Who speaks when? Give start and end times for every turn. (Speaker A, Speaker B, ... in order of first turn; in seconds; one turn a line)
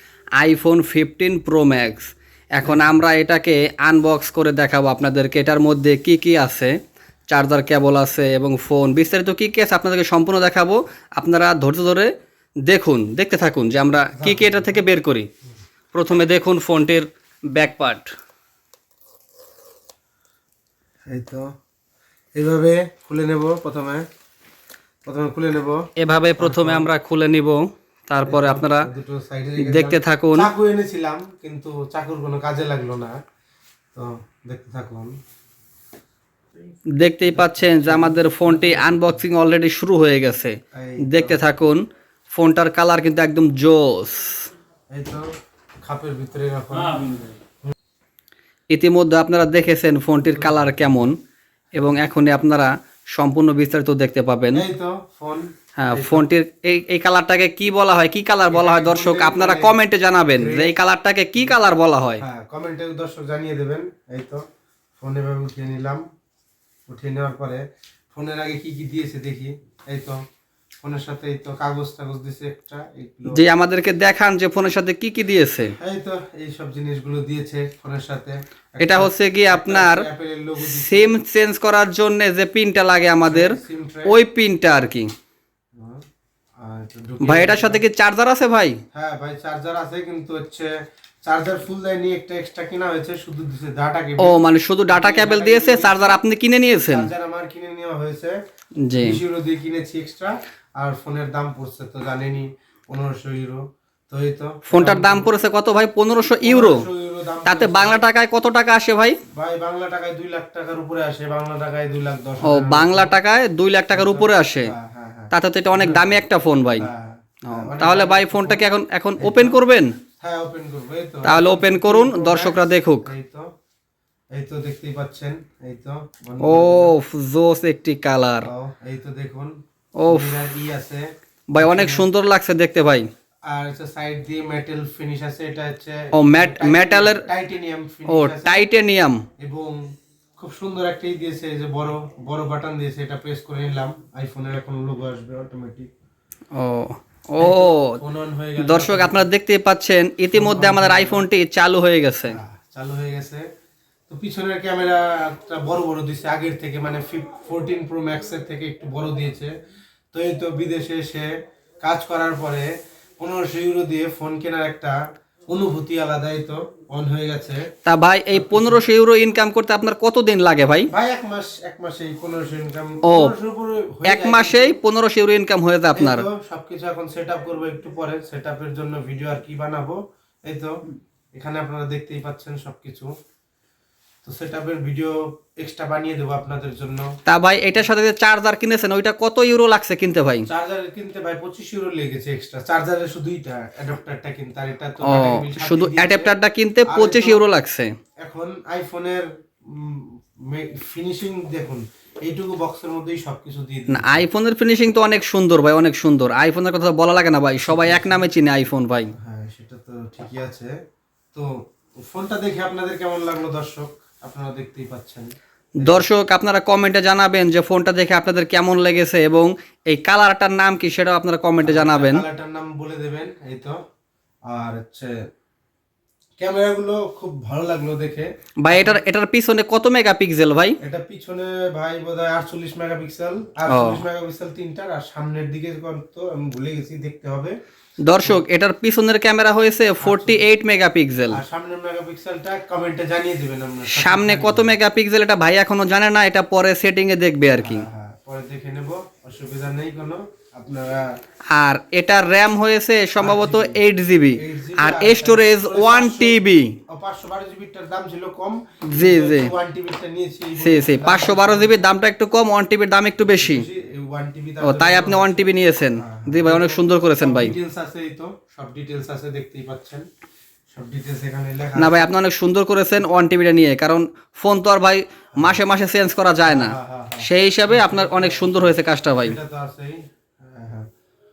Speaker A: 0.4-6.7
Speaker B: 2.6-3.0
Speaker A: 7.3-12.1
Speaker A: 12.7-15.3
Speaker B: 14.2-14.8
Speaker A: 15.9-18.1
Speaker B: 21.1-21.5
Speaker B: 22.3-24.0
Speaker B: 25.1-25.9
Speaker A: 26.0-28.9
Speaker B: 26.4-26.9
Speaker B: 28.2-33.2
Speaker A: 29.6-30.5
Speaker B: 33.9-35.1
Speaker A: 36.9-44.5
Speaker B: 37.3-39.2
Speaker B: 40.7-41.5
Speaker B: 44.9-45.2
Speaker B: 45.8-47.7
Speaker A: 48.7-51.2
Speaker B: 50.2-51.1
Speaker A: 51.7-54.6
Speaker B: 54.5-56.3
Speaker A: 55.8-62.2
Speaker B: 58.5-59.8
Speaker B: 60.3-60.8
Speaker B: 62.2-64.4
Speaker B: 65.0-66.0
Speaker B: 66.9-70.2
Speaker B: 70.8-73.4
Speaker A: 73.3-75.8
Speaker B: 75.8-81.2
Speaker A: 78.8-80.0
Speaker A: 80.6-85.1
Speaker B: 83.2-84.2
Speaker B: 85.7-86.0
Speaker B: 86.6-87.8
Speaker A: 87.2-88.8
Speaker B: 88.9-90.7
Speaker B: 91.2-96.2
Speaker A: 94.2-97.1
Speaker B: 96.8-98.4
Speaker A: 98.8-99.2
Speaker B: 99.0-105.3
Speaker A: 104.7-106.9
Speaker B: 106.4-108.0
Speaker A: 107.5-109.2
Speaker B: 109.3-113.2
Speaker A: 112.4-114.7
Speaker B: 113.9-116.2
Speaker A: 115.3-116.9
Speaker B: 116.7-118.6
Speaker A: 117.5-120.0
Speaker B: 119.2-119.6
Speaker B: 120.2-123.5
Speaker A: 121.2-123.1
Speaker B: 124.3-126.9
Speaker A: 126.4-128.5
Speaker B: 128.4-132.1
Speaker A: 130.0-130.4
Speaker A: 131.5-133.1
Speaker B: 133.5-138.7
Speaker A: 136.1-137.3
Speaker A: 138.1-139.2
Speaker B: 139.4-145.9
Speaker A: 146.5-148.0
Speaker B: 147.4-149.3
Speaker A: 148.6-152.4
Speaker B: 150.3-151.2
Speaker B: 152.3-153.4
Speaker B: 154.1-159.5
Speaker B: 160.1-161.3
Speaker B: 161.8-165.0
Speaker B: 165.5-167.7
Speaker A: 167.8-170.9
Speaker B: 168.3-168.9
Speaker B: 170.9-174.8
Speaker A: 173.0-173.3
Speaker A: 174.1-176.3
Speaker B: 175.9-180.7
Speaker B: 181.3-183.1
Speaker B: 184.2-187.1
Speaker A: 187.3-190.5
Speaker B: 190.5-196.3
Speaker A: 195.0-197.9
Speaker B: 196.9-197.5
Speaker B: 198.2-204.2
Speaker A: 203.9-209.1
Speaker B: 207.6-208.3
Speaker B: 209.1-210.7
Speaker B: 211.3-216.1
Speaker A: 215.8-222.2
Speaker B: 221.6-223.8
Speaker B: 224.5-225.1
Speaker B: 226.4-229.0
Speaker A: 228.6-230.8
Speaker B: 230.8-237.6
Speaker A: 233.7-234.0
Speaker A: 238.0-241.4
Speaker B: 240.0-240.4
Speaker B: 241.3-244.8
Speaker A: 243.9-247.8
Speaker B: 247.6-251.2
Speaker A: 251.5-256.8
Speaker B: 253.2-253.8
Speaker B: 254.4-261.8
Speaker A: 258.9-259.5
Speaker A: 260.6-263.6
Speaker B: 263.3-270.0
Speaker A: 264.6-267.6
Speaker B: 270.7-272.1
Speaker A: 271.8-279.4
Speaker B: 276.4-280.9